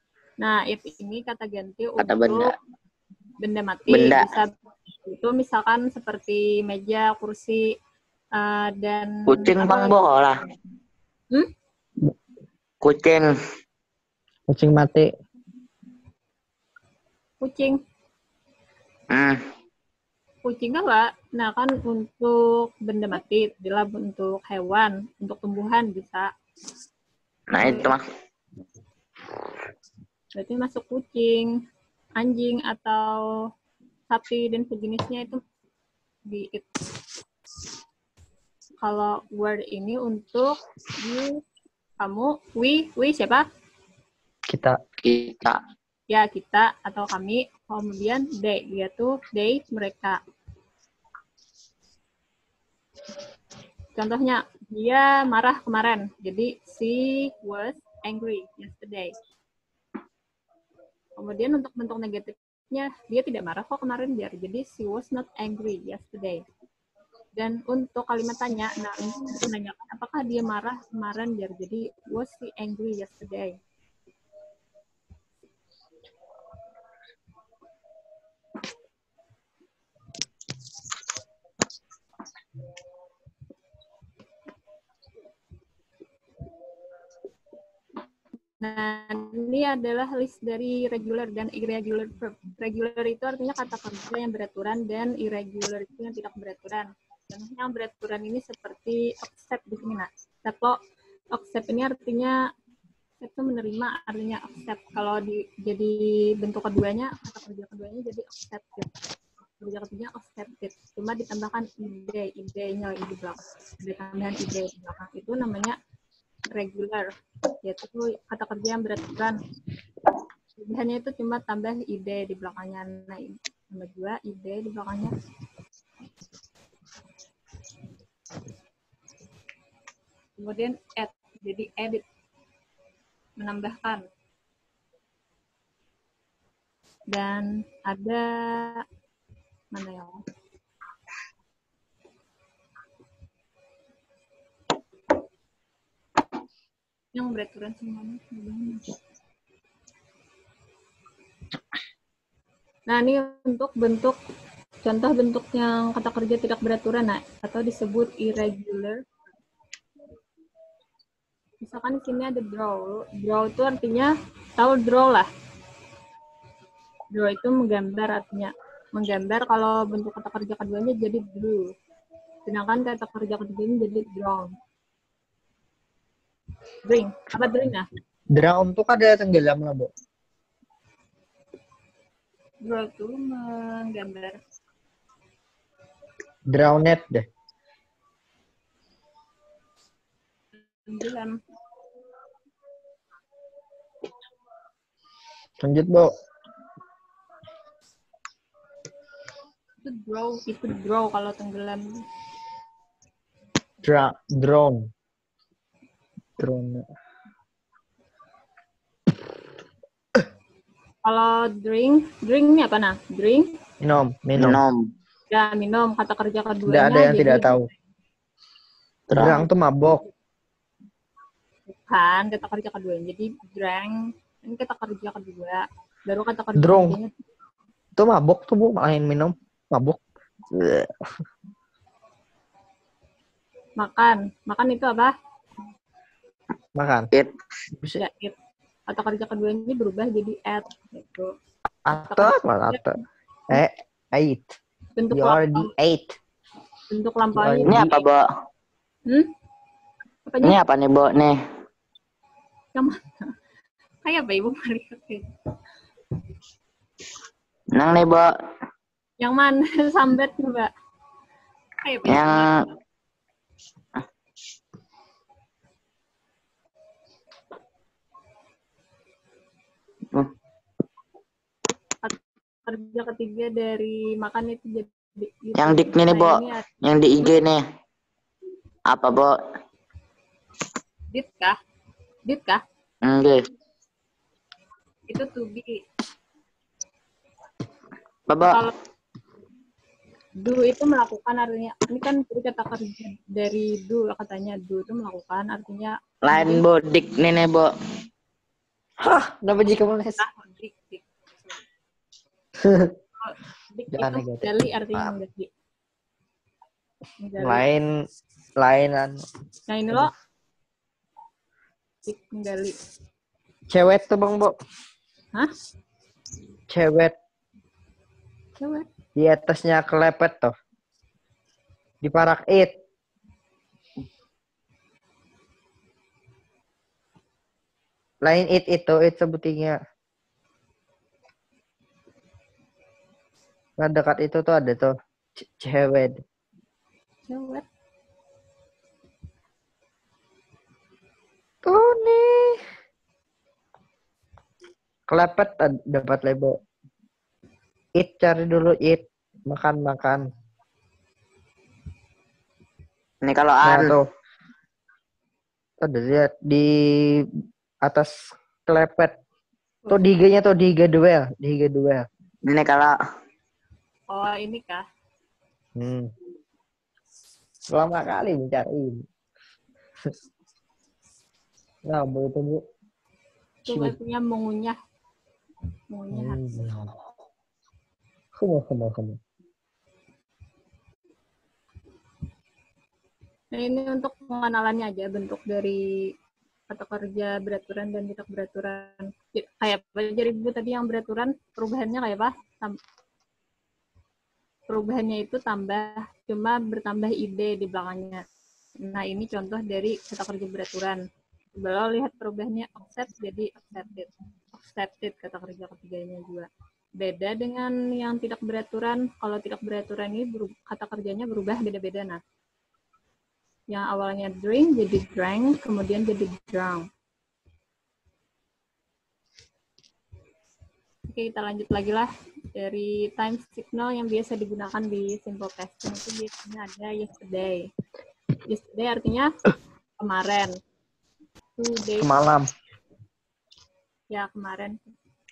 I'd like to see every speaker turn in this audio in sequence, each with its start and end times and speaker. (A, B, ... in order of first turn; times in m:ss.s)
0:00.4-0:02.5 A
0:02.0-0:02.5 B
0:03.4-0:04.5 A
0:03.9-0:04.3 B
0:05.0-0:07.7 A
0:08.3-0:09.9 A
0:09.3-0:10.4 B
0:12.8-0:13.3 B
0:14.5-0:15.1 C
0:17.4-0:17.8 A
0:19.1-0:19.4 B
0:20.4-0:26.3 A
0:27.5-0:28.0 B
0:27.6-0:27.9 A
0:30.3-0:31.5 A
0:32.2-0:33.2 A
0:34.1-0:35.4 A
0:36.3-0:36.7 A
0:38.8-0:41.4 A
0:42.0-0:43.5 A
0:44.5-0:44.8 C
0:45.0-0:45.6 B
0:46.1-0:50.2 A
0:54.0-0:59.1 A
1:01.2-1:06.4 A
1:07.4-1:13.6 A
1:28.6-1:40.8 A
1:41.3-1:42.4 A
1:43.2-1:48.9 A
1:49.6-1:55.8 A
1:56.5-1:59.4 A
2:00.6-2:05.1 A
2:10.4-2:12.0 A
2:13.4-2:14.0 A
2:17.1-2:18.8 A
2:19.7-2:20.2 A
2:27.1-2:29.0 A
2:32.9-2:34.2 A
2:34.8-2:39.0 A
2:41.6-2:45.3 A
2:47.1-2:51.7 A
2:52.5-2:54.5 A
2:56.8-2:57.9 A
2:58.3-2:59.9 C
3:02.6-3:04.4 A
3:06.5-3:07.2 C
3:10.8-3:11.4 A
3:15.6-3:16.1 C
3:19.8-3:22.0 A
3:23.8-3:24.9 C
3:26.4-3:26.8 C
3:31.0-3:33.5 A
3:33.8-3:34.6 C
3:34.4-3:34.9 B
3:35.3-3:37.6 A
3:36.6-3:37.7 C
3:39.1-3:39.4 B
3:39.1-3:40.0 C
3:41.7-3:47.2 A
3:46.6-3:47.0 C
3:48.0-3:50.0 C
3:50.5-3:50.9 C
3:53.8-3:55.1 A
3:56.8-3:57.1 C
3:58.0-3:58.3 A
3:58.9-4:01.3 A
4:01.8-4:03.0 C
4:02.0-4:02.8 A
4:03.5-4:04.5 C
4:05.0-4:05.7 A
4:05.1-4:06.2 C
4:06.9-4:08.0 A
4:07.3-4:07.8 C
4:07.7-4:08.2 B
4:10.3-4:10.6 A
4:10.4-4:11.4 B
4:12.7-4:13.3 A
4:14.0-4:15.2 A
4:17.7-4:18.3 B
4:19.2-4:20.7 A
4:21.8-4:22.7 A
4:22.1-4:22.6 B
4:32.0-4:37.4 A
4:35.6-4:37.6 B
4:38.9-4:39.4 B
4:41.1-4:41.6 A
4:42.2-4:42.6 A
4:43.0-4:43.4 B
4:45.1-4:45.8 A
4:48.3-4:48.6 B
4:48.4-4:48.7 A
4:50.4-4:56.6 A
4:56.2-4:57.7 B
4:59.0-5:00.2 C
5:00.2-5:01.5 A
5:02.6-5:02.9 C
5:03.2-5:05.5 A
5:03.9-5:04.5 C
5:07.2-5:07.6 A
5:07.4-5:07.9 C
5:08.6-5:09.2 C
5:09.7-5:10.1 A
5:12.0-5:12.8 A
5:13.7-5:14.5 C
5:16.7-5:17.1 C
5:18.6-5:18.9 A
5:19.2-5:20.5 C
5:22.0-5:22.7 C
5:28.2-5:29.8 C
5:33.8-5:36.2 C
5:37.2-5:37.6 A
5:41.6-5:42.6 C
5:45.1-5:46.6 C
5:48.0-5:50.3 C
5:53.2-5:54.0 B
5:53.6-5:54.1 C
5:55.8-5:57.3 C
5:57.8-5:58.1 C
5:58.6-5:59.1 C
5:59.9-6:02.0 C
6:02.4-6:03.0 B
6:04.1-6:04.8 A
6:05.8-6:06.1 C
6:07.7-6:09.0 C
6:11.8-6:12.6 C
6:13.6-6:14.8 A
6:13.7-6:13.9 C
6:15.9-6:16.6 A
6:16.1-6:16.9 C
6:18.4-6:19.2 C
6:23.5-6:25.8 A
6:26.7-6:32.8 A
6:34.7-6:38.2 A
6:38.8-6:41.0 A
6:41.6-6:52.2 A
6:53.7-6:56.9 A
7:01.1-7:07.6 A
7:08.4-7:09.3 A
7:10.0-7:10.6 A
7:11.6-7:12.1 A
7:12.0-7:12.5 C
7:14.1-7:14.8 A